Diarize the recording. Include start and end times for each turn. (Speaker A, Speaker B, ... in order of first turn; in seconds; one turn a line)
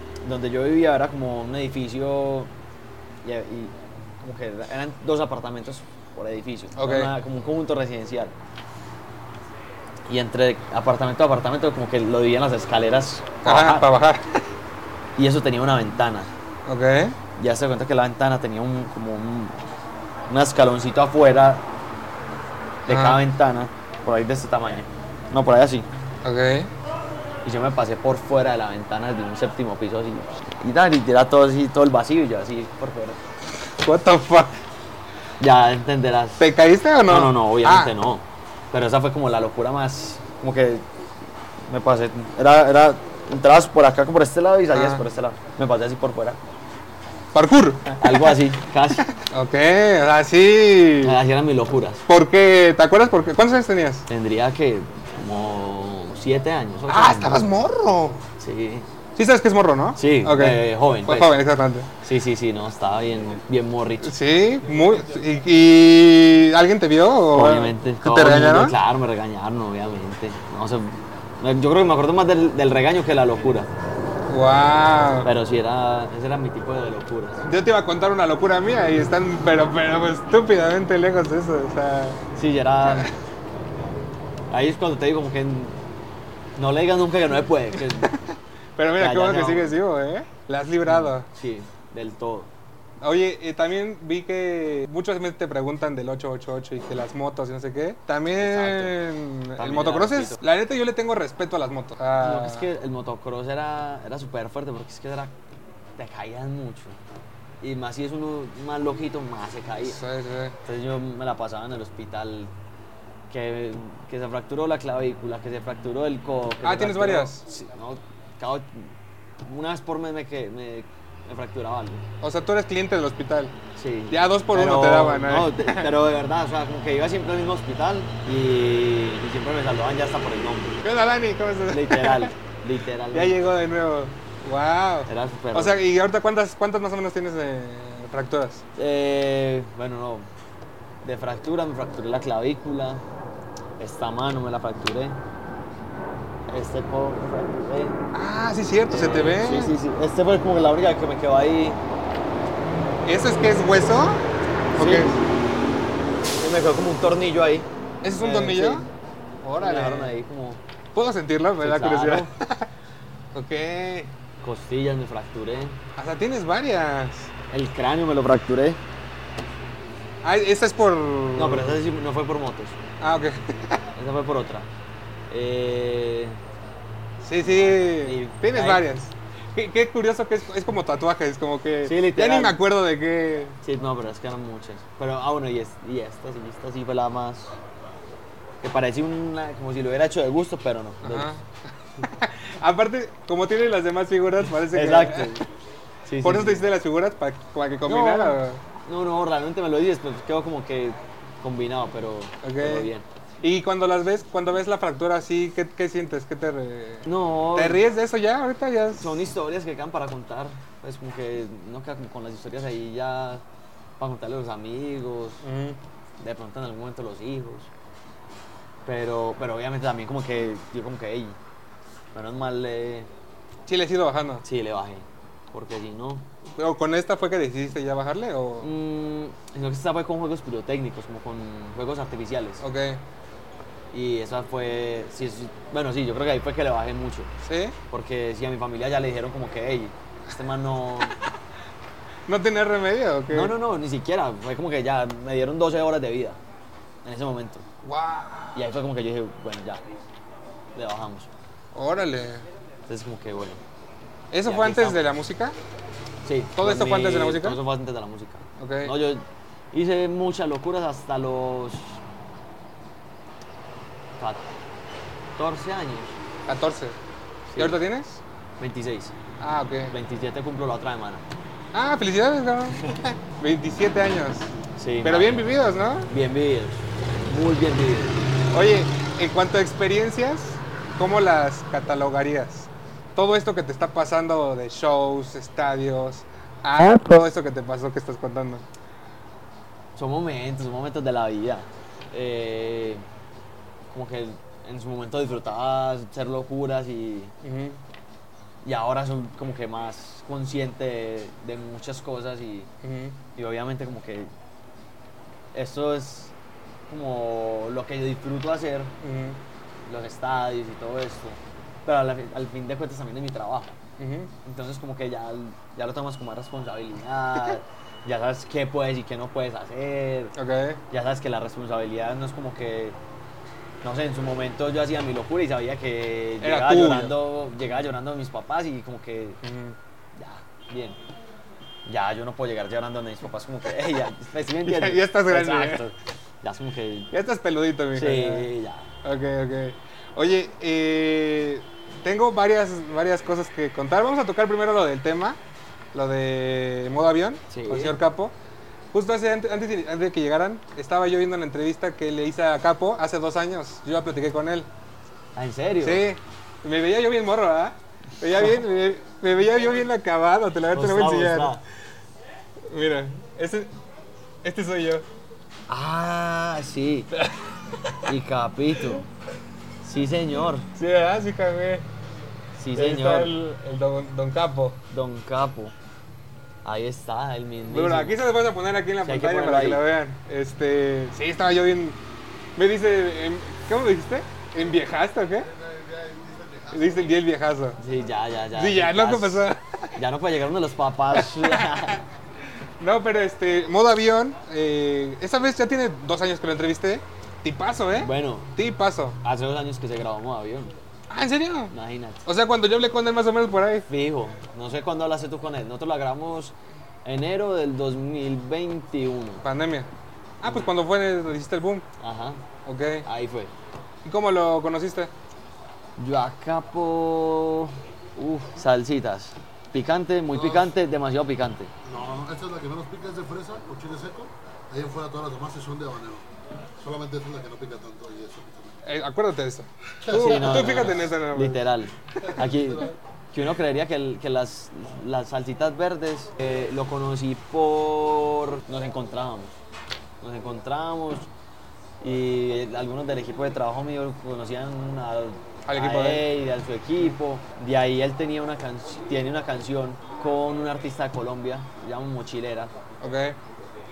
Speaker A: 0.2-2.5
Speaker A: 3.2-8.3
Speaker B: 6.8-7.1
Speaker A: 10.1-13.9
Speaker B: 13.4-14.4
Speaker A: 15.2-16.3
Speaker B: 16.6-17.2
Speaker A: 17.4-19.6
Speaker A: 20.3-21.7
Speaker A: 22.9-25.9
Speaker B: 22.9-23.2
Speaker B: 26.2-26.7
Speaker A: 27.4-33.2
Speaker B: 33.8-34.6
Speaker A: 35.4-36.4
Speaker B: 36.4-37.9
Speaker A: 37.1-40.8
Speaker A: 41.7-46.4
Speaker B: 44.7-45.0
Speaker B: 47.3-48.4
Speaker A: 48.0-49.0
Speaker B: 49.0-51.2
Speaker A: 51.0-52.0
Speaker B: 52.1-54.0
Speaker A: 54.1-57.4
Speaker B: 56.9-58.2
Speaker A: 58.4-58.9
Speaker B: 59.1-61.9
Speaker A: 60.0-61.4
Speaker A: 62.0-64.1
Speaker B: 64.0-68.7
Speaker A: 67.3-73.7
Speaker B: 74.3-75.3
Speaker A: 75.2-77.4
Speaker B: 77.5-82.2
Speaker A: 82.3-83.1
Speaker B: 82.8-83.1
Speaker A: 84.5-85.8
Speaker A: 86.5-88.1
Speaker B: 88.8-91.3
Speaker A: 89.0-89.8
Speaker A: 90.8-92.5
Speaker B: 93.0-102.6
Speaker A: 98.4-98.9
Speaker A: 99.6-100.4
Speaker A: 102.2-105.3
Speaker A: 106.0-107.0
Speaker A: 107.6-110.0
Speaker B: 109.9-110.5
Speaker A: 110.6-112.5
Speaker A: 113.3-122.0
Speaker B: 116.6-117.4
Speaker B: 122.2-123.5
Speaker A: 123.8-130.8
Speaker B: 124.1-125.9
Speaker B: 130.8-132.3
Speaker A: 131.7-133.3
Speaker B: 133.1-138.6
Speaker A: 135.1-135.8
Speaker A: 138.8-140.3
Speaker A: 141.0-143.0
Speaker A: 143.8-145.2
Speaker A: 146.5-148.0
Speaker B: 148.1-149.8
Speaker A: 148.9-151.8
Speaker B: 153.0-154.2
Speaker A: 154.7-155.2
Speaker B: 154.7-155.2
Speaker A: 156.4-158.9
Speaker B: 158.0-158.8
Speaker B: 159.4-160.1
Speaker A: 159.6-160.6
Speaker B: 160.9-162.7
Speaker A: 161.6-162.3
Speaker B: 163.3-164.1
Speaker A: 164.4-165.8
Speaker B: 166.0-167.3
Speaker A: 167.5-168.8
Speaker B: 170.2-171.8
Speaker A: 171.4-172.8
Speaker B: 173.0-173.8
Speaker A: 173.9-174.7
Speaker A: 175.3-176.4
Speaker B: 177.2-183.6
Speaker A: 177.4-178.8
Speaker A: 181.8-182.6
Speaker A: 183.6-187.6
Speaker A: 188.6-191.3
Speaker B: 191.0-191.4
Speaker B: 192.0-195.4
Speaker A: 194.7-195.4
Speaker A: 196.0-196.6
Speaker B: 196.2-198.6
Speaker A: 197.8-203.0
Speaker B: 202.4-202.9
Speaker B: 203.4-209.2
Speaker A: 207.1-207.8
Speaker A: 209.0-213.4
Speaker A: 214.0-215.4
Speaker B: 215.4-215.8
Speaker A: 216.2-217.7
Speaker A: 218.8-221.4
Speaker A: 222.1-223.1
Speaker B: 223.7-224.4
Speaker A: 224.4-226.2
Speaker B: 226.6-228.7
Speaker A: 228.6-232.6
Speaker B: 232.6-233.0
Speaker A: 233.9-237.3
Speaker B: 237.4-237.8
Speaker A: 237.9-241.2
Speaker B: 242.3-243.5
Speaker A: 243.3-246.4
Speaker A: 247.0-247.6
Speaker B: 247.8-248.6
Speaker A: 248.5-249.8
Speaker A: 250.7-251.3
Speaker B: 251.7-252.4
Speaker A: 252.9-253.6
Speaker B: 254.3-255.6
Speaker A: 254.4-255.0
Speaker A: 256.2-262.0
Speaker B: 256.6-257.6
Speaker B: 258.6-258.9
Speaker A: 264.2-264.4
Speaker A: 265.4-266.2
Speaker B: 266.5-267.0
Speaker A: 267.5-267.8
Speaker B: 267.6-268.2
Speaker A: 268.6-269.1
Speaker B: 269.4-269.9
Speaker A: 269.9-271.2
Speaker B: 271.7-274.5
Speaker A: 274.8-275.6
Speaker B: 275.0-276.1
Speaker A: 276.1-278.3
Speaker B: 278.5-288.6
Speaker A: 289.9-293.0
Speaker A: 293.9-297.3
Speaker B: 297.4-297.8
Speaker A: 298.6-302.7
Speaker B: 302.8-303.2
Speaker A: 303.4-304.3
Speaker A: 305.5-306.3
Speaker A: 306.9-308.9
Speaker B: 309.0-309.4
Speaker A: 309.9-313.8
Speaker B: 314.0-314.3
Speaker A: 314.4-320.3
Speaker B: 320.4-320.8
Speaker A: 320.9-323.0
Speaker A: 323.8-329.4
Speaker B: 326.4-327.1
Speaker B: 329.4-329.8
Speaker A: 330.1-331.0
Speaker A: 331.9-337.1
Speaker B: 334.6-335.9
Speaker B: 337.1-338.5
Speaker A: 337.9-338.9
Speaker B: 339.0-345.4
Speaker B: 345.9-348.3
Speaker A: 347.5-348.0
Speaker B: 348.9-354.7
Speaker A: 355.4-356.0
Speaker B: 355.8-361.6
Speaker A: 360.7-361.6
Speaker B: 362.7-363.7
Speaker B: 364.4-365.1
Speaker A: 365.7-367.1
Speaker B: 367.2-368.0
Speaker A: 368.0-369.1
Speaker A: 369.8-370.7
Speaker B: 370.7-371.9
Speaker A: 372.6-373.3
Speaker B: 372.7-374.8
Speaker A: 374.9-375.7
Speaker A: 376.6-378.2
Speaker B: 377.7-382.0
Speaker A: 379.0-379.8
Speaker B: 382.6-385.5
Speaker C: 385.4-387.1
Speaker B: 386.7-387.8
Speaker A: 387.8-392.0
Speaker B: 388.5-389.9
Speaker B: 391.1-392.0
Speaker B: 392.8-399.2
Speaker A: 398.0-398.5
Speaker A: 399.2-400.7
Speaker B: 401.1-401.7
Speaker A: 401.7-402.2
Speaker B: 402.2-403.9
Speaker A: 403.9-409.4
Speaker B: 409.4-409.9
Speaker B: 410.4-411.9
Speaker A: 410.4-410.7
Speaker A: 412.0-412.4
Speaker B: 412.6-413.0
Speaker A: 413.0-413.5
Speaker B: 414.0-415.1
Speaker A: 416.0-421.7
Speaker C: 421.8-428.8
Speaker B: 428.8-431.7
Speaker C: 430.0-431.0
Speaker A: 430.1-439.6
Speaker C: 432.3-432.9
Speaker A: 440.2-441.3
Speaker A: 442.0-452.7
Speaker B: 445.6-446.2
Speaker B: 453.0-453.4